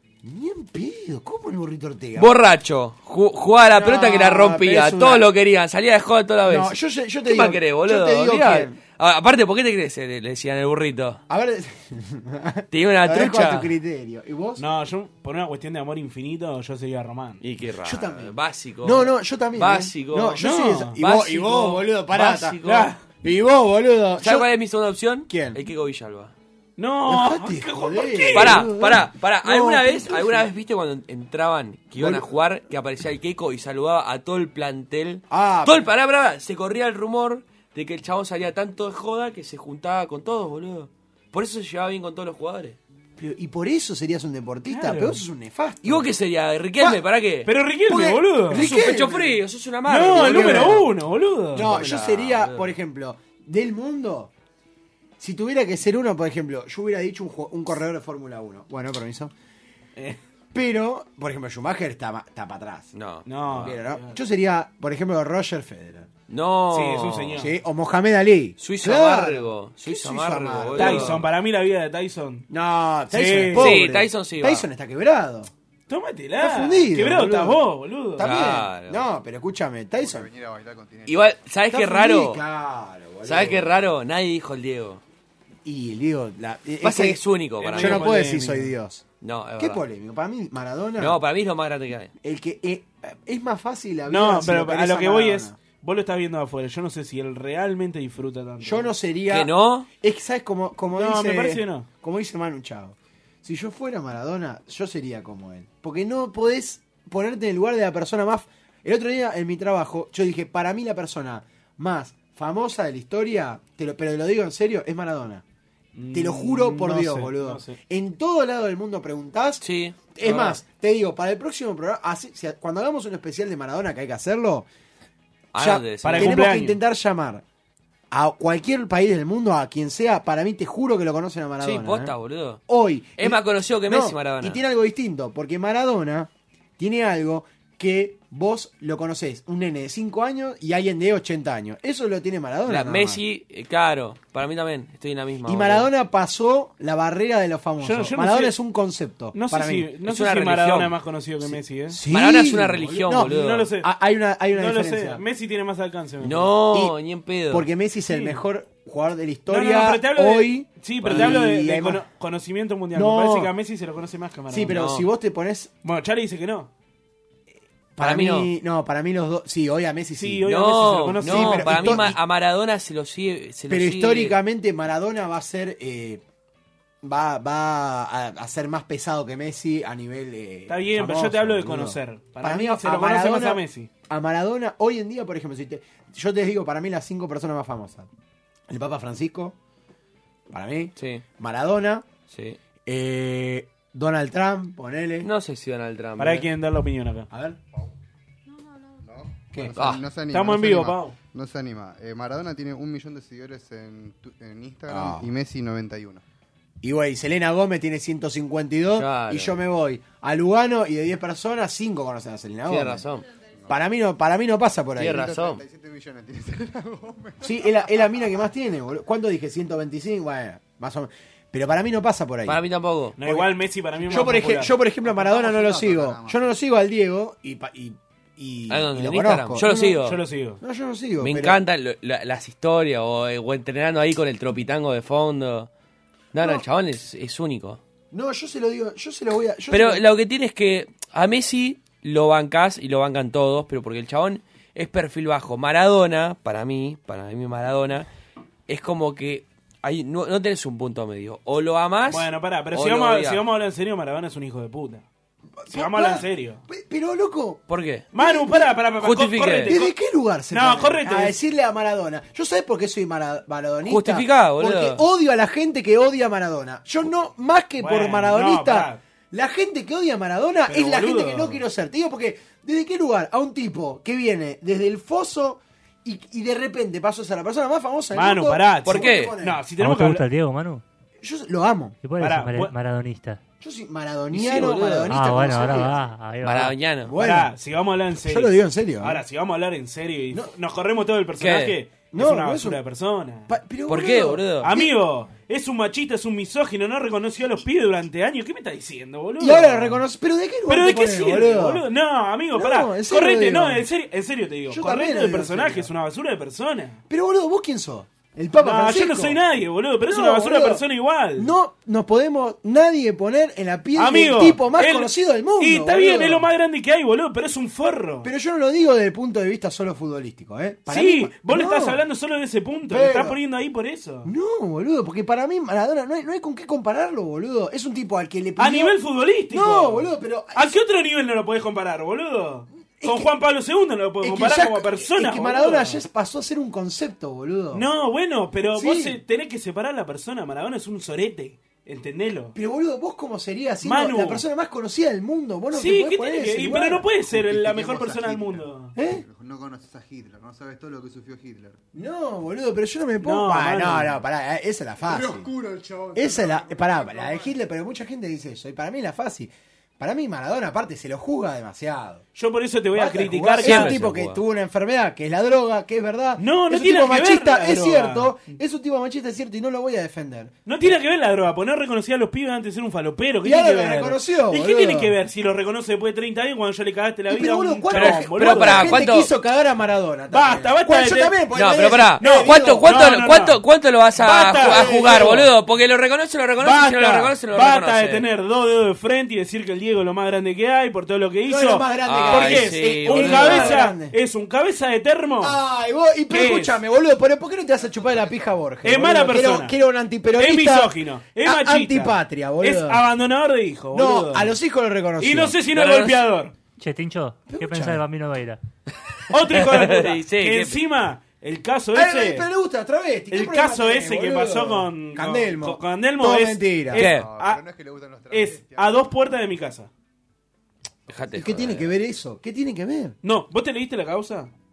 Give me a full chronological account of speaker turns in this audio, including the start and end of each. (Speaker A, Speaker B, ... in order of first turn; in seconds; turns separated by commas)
Speaker A: 0.2-2.3, Speaker B: 2.1-6.7, Speaker A: 3.7-5.3, Speaker A: 6.5-8.8, Speaker B: 7.2-11.2, Speaker A: 11.3-14.6, Speaker B: 12.7-13.7, Speaker C: 14.6-17.4, Speaker B: 17.4-20.4, Speaker A: 17.8-22.6, Speaker C: 20.4-21.0, Speaker B: 21.0-22.9, Speaker C: 22.6-23.0, Speaker A: 23.2-24.5, Speaker B: 24.2-26.3, Speaker A: 25.3-25.6, Speaker C: 26.8-28.7, Speaker A: 27.1-30.5, Speaker B: 28.3-42.8, Speaker A: 32.0-32.3, Speaker A: 35.3-35.9, Speaker A: 43.2-46.1, Speaker C: 44.7-45.2, Speaker B: 45.8-47.5, Speaker C: 47.4-48.6, Speaker A: 47.9-49.4, Speaker B: 48.5-50.8, Speaker C: 49.9-51.7, Speaker A: 50.0-50.9, Speaker A: 51.5-54.3, Speaker B: 51.6-52.7, Speaker A: 55.2-59.3, Speaker A: 60.5-62.9, Speaker B: 62.9-63.8, Speaker C: 63.2-64.2, Speaker A: 63.5-66.1, Speaker B: 66.3-67.4, Speaker C: 66.7-67.5, Speaker A: 67.3-71.2, Speaker B: 68.6-71.2, Speaker C: 70.8-72.5, Speaker A: 72.5-75.5, Speaker C: 73.1-73.8, Speaker B: 73.5-74.7, Speaker C: 75.9-78.3, Speaker A: 76.4-77.6, Speaker A: 78.2-80.3, Speaker B: 78.2-79.0, Speaker D: 80.0-81.3, Speaker B: 81.1-82.4, Speaker A: 81.7-83.8, Speaker B: 83.2-85.0, Speaker A: 85.6-89.0, Speaker B: 86.8-88.1, Speaker C: 87.6-88.7, Speaker B: 89.2-89.8, Speaker A: 89.6-91.2, Speaker B: 91.0-92.1, Speaker A: 92.2-95.6, Speaker C: 94.1-98.9, Speaker A: 98.6-115.4, Speaker B: 99.3-99.9, Speaker C: 100.9-101.9, Speaker C: 115.9-117.8, Speaker A: 116.1-124.7, Speaker B: 119.6-120.6, Speaker B: 125.5-126.4, Speaker A: 125.5-127.4, Speaker C: 126.0-126.8, Speaker A: 128.1-132.1, Speaker B: 131.6-132.6, Speaker A: 132.7-143.2, Speaker B: 133.2-134.6, Speaker B: 142.7-145.9, Speaker A: 145.4-149.9, Speaker C: 147.8-148.5, Speaker C: 149.3-152.0, Speaker B: 150.0-150.9, Speaker A: 151.9-155.2, Speaker B: 152.1-153.7, Speaker C: 153.2-153.9, Speaker C: 154.5-156.5, Speaker B: 156.2-157.7, Speaker A: 157.5-162.0, Speaker C: 158.1-158.4, Speaker C: 159.5-164.8, Speaker B: 161.0-161.4, Speaker A: 162.9-163.5, Speaker A: 164.5-165.7, Speaker B: 164.7-165.1, Speaker C: 165.8-166.7, Speaker A: 168.0-170.5, Speaker B: 168.0-168.5, Speaker C: 170.2-172.1, Speaker B: 170.5-174.4, Speaker A: 171.1-172.2, Speaker A: 173.7-176.2, Speaker A: 177.0-188.1, Speaker C: 180.7-183.9, Speaker A: 188.7-189.6, Speaker A: 190.5-192.1, Speaker B: 191.0-191.2, Speaker B: 192.3-192.6, Speaker A: 192.8-195.3, Speaker B: 195.2-196.5, Speaker C: 196.2-197.3, Speaker A: 197.3-197.6, Speaker D: 198.6-206.2, Speaker A: 199.5-199.8, Speaker B: 199.8-200.0, Speaker C: 200.3-201.2, Speaker A: 204.9-205.3, Speaker A: 206.8-213.1, Speaker B: 208.9-209.5, Speaker B: 212.7-213.2, Speaker D: 213.5-213.8, Speaker A: 213.7-215.3, Speaker B: 215.0-215.6, Speaker D: 215.0-218.5, Speaker A: 217.4-222.6, Speaker B: 222.5-223.2, Speaker C: 223.2-224.8, Speaker A: 223.2-223.5, Speaker A: 224.1-230.0, Speaker D: 225.0-226.5, Speaker B: 228.7-230.2, Speaker C: 229.6-230.6, Speaker A: 230.6-231.6, Speaker B: 231.2-235.7, Speaker B: 236.3-237.8, Speaker A: 236.4-236.6, Speaker A: 238.1-240.0, Speaker B: 239.7-248.1, Speaker B: 248.7-253.4, Speaker C: 252.1-255.0, Speaker A: 255.6-257.6, Speaker C: 255.7-256.6, Speaker B: 257.7-258.1, Speaker C: 258.1-259.9, Speaker A: 258.1-258.8, Speaker B: 259.0-259.8, Speaker A: 259.6-279.6, Speaker C: 260.5-261.4, Speaker B: 263.8-265.0, Speaker C: 267.8-269.0, Speaker C: 270.7-271.6, Speaker C: 278.1-280.2, Speaker B: 278.9-279.3, Speaker E: 279.8-280.8, Speaker A: 281.2-282.0, Speaker E: 282.0-283.4, Speaker C: 282.2-282.7, Speaker A: 283.6-286.0, Speaker B: 284.3-285.8, Speaker E: 285.1-286.8, Speaker B: 286.4-287.1, Speaker A: 287.0-287.5, Speaker C: 287.2-293.5, Speaker A: 288.2-289.2, Speaker B: 291.4-291.7, Speaker A: 292.1-292.8, Speaker A: 293.5-294.9, Speaker B: 293.9-294.7, Speaker C: 294.6-300.0, Speaker A: 299.4-301.8, Speaker C: 300.7-307.0, Speaker A: 302.5-303.9, Speaker A: 304.7-305.9, Speaker A: 307.1-309.4, Speaker C: 308.6-311.5, Speaker A: 310.0-310.8, Speaker A: 311.4-316.5, Speaker C: 313.9-318.3, Speaker A: 318.2-322.0, Speaker C: 320.9-324.3, Speaker A: 322.9-323.4, Speaker A: 324.2-328.9, Speaker C: 328.6-336.0, Speaker A: 329.5-330.7, Speaker A: 333.0-333.3, Speaker A: 334.2-337.9, Speaker C: 337.7-342.5, Speaker A: 338.7-339.2, Speaker A: 342.5-347.1, Speaker C: 343.8-344.4, Speaker C: 345.7-348.9, Speaker D: 347.3-351.8, Speaker A: 348.9-349.2, Speaker A: 351.9-355.5, Speaker C: 353.2-354.2, Speaker D: 355.1-357.6, Speaker A: 356.1-362.2, Speaker C: 362.3-364.0, Speaker A: 362.9-370.5, Speaker B: 363.6-364.4, Speaker C: 366.4-368.6, Speaker C: 370.6-379.0, Speaker A: 373.4-375.1, Speaker A: 377.3-382.9, Speaker B: 377.9-379.3, Speaker C: 380.3-381.4, Speaker B: 381.5-388.2, Speaker C: 382.2-383.6, Speaker C: 384.1-385.4, Speaker A: 384.5-385.5, Speaker C: 386.6-395.6, Speaker A: 391.4-394.1, Speaker B: 392.0-393.8, Speaker A: 395.4-403.0, Speaker C: 396.3-396.8, Speaker C: 398.8-399.8, Speaker C: 400.4-404.5, Speaker A: 403.9-405.6, Speaker C: 405.2-406.5, Speaker B: 405.7-406.3, Speaker E: 406.8-408.6, Speaker A: 407.5-408.0, Speaker C: 409.3-412.5, Speaker B: 409.5-410.8, Speaker A: 411.9-417.0, Speaker C: 413.3-417.6, Speaker B: 416.9-417.3, Speaker D: 417.0-419.1, Speaker C: 418.3-419.9, Speaker B: 421.1-421.9, Speaker A: 421.3-423.2, Speaker C: 423.2-424.5